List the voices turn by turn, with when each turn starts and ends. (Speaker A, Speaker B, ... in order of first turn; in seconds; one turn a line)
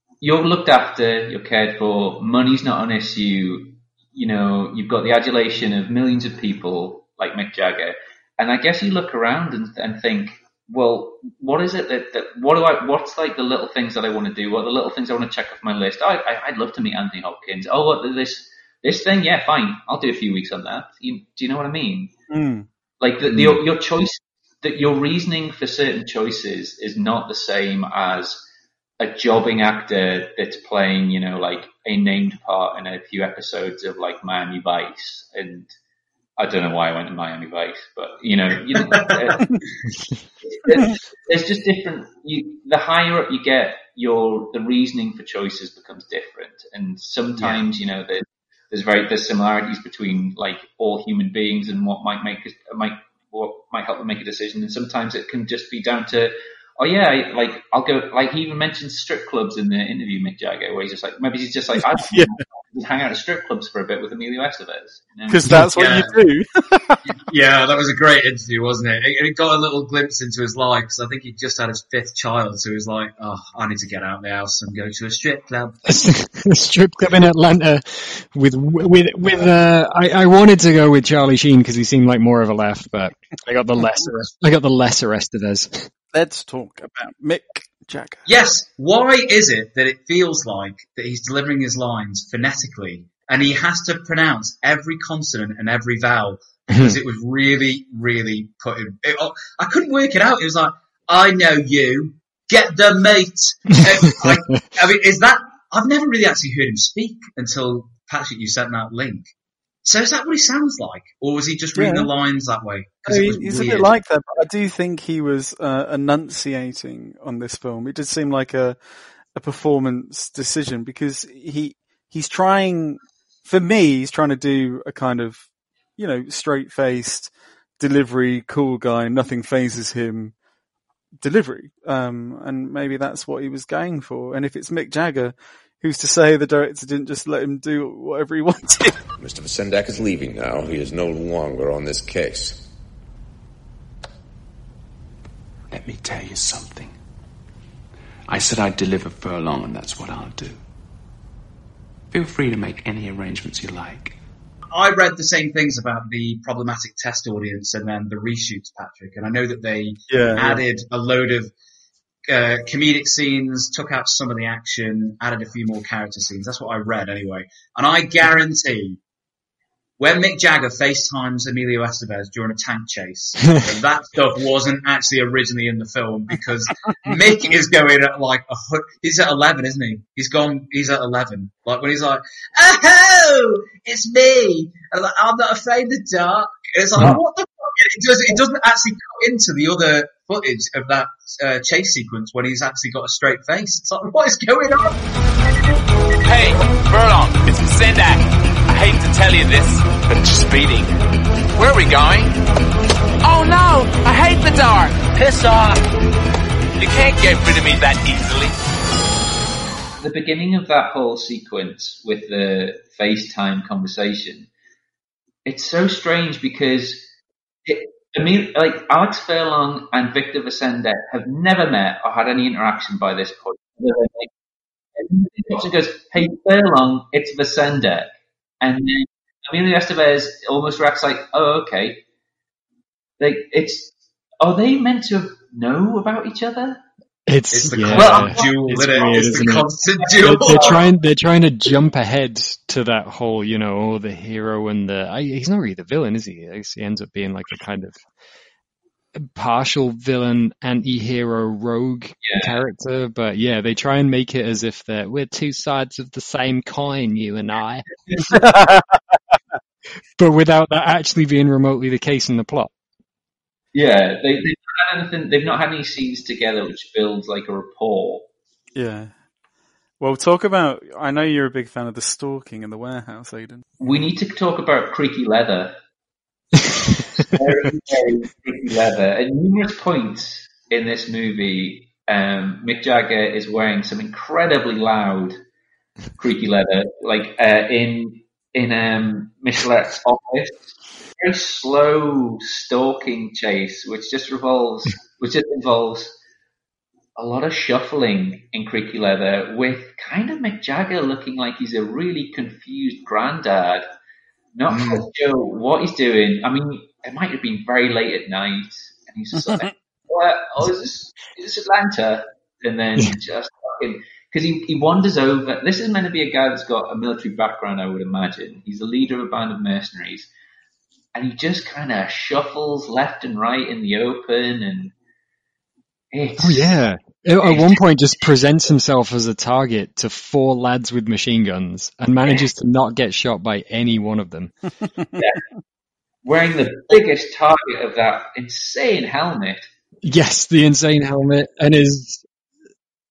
Speaker A: 0.2-22.1
Speaker B: 22.3-22.7
Speaker A: 23.0-28.4
Speaker A: 29.0-35.7
Speaker A: 36.4-39.4
Speaker C: 38.7-39.4
Speaker A: 40.5-65.4
Speaker C: 47.4-47.6
Speaker B: 62.1-62.4
Speaker B: 65.3-67.0
Speaker C: 65.8-66.2
Speaker C: 67.1-75.8
Speaker D: 75.9-85.9
Speaker B: 86.1-88.2
Speaker C: 88.3-109.3
Speaker D: 96.7-97.0
Speaker C: 109.8-113.9
Speaker B: 111.8-112.1
Speaker B: 113.1-118.8
Speaker B: 119.4-125.5
Speaker B: 126.0-130.3
Speaker B: 131.2-139.0
Speaker E: 139.2-142.6
Speaker F: 145.7-147.0
Speaker F: 148.3-150.6
Speaker F: 152.1-154.2
Speaker C: 154.7-161.5
Speaker B: 160.1-160.6
Speaker C: 162.3-169.0
Speaker C: 170.0-195.0
Speaker G: 196.2-201.0
Speaker G: 201.6-202.4
Speaker G: 203.2-205.8
Speaker G: 206.8-208.6
Speaker A: 210.0-214.5
Speaker A: 215.4-217.1
Speaker A: 217.7-224.3
Speaker A: 225.0-228.1
Speaker A: 228.6-232.0
Speaker A: 233.2-236.8
Speaker D: 237.3-248.0
Speaker C: 237.5-240.8
Speaker A: 237.9-239.2
Speaker A: 240.4-240.7
Speaker D: 249.2-257.9
Speaker A: 252.2-252.6
Speaker B: 258.3-258.9
Speaker D: 260.2-262.7
Speaker A: 263.7-268.3
Speaker B: 268.8-269.1
Speaker B: 270.0-273.6
Speaker A: 273.8-275.7
Speaker A: 277.3-285.4
Speaker A: 286.2-296.1
Speaker A: 297.2-303.9
Speaker A: 304.6-320.3
Speaker C: 304.7-305.1
Speaker A: 321.1-324.9
Speaker A: 326.1-326.8
Speaker D: 326.4-334.5
Speaker A: 327.5-327.7
Speaker A: 336.2-339.7
Speaker D: 340.0-342.2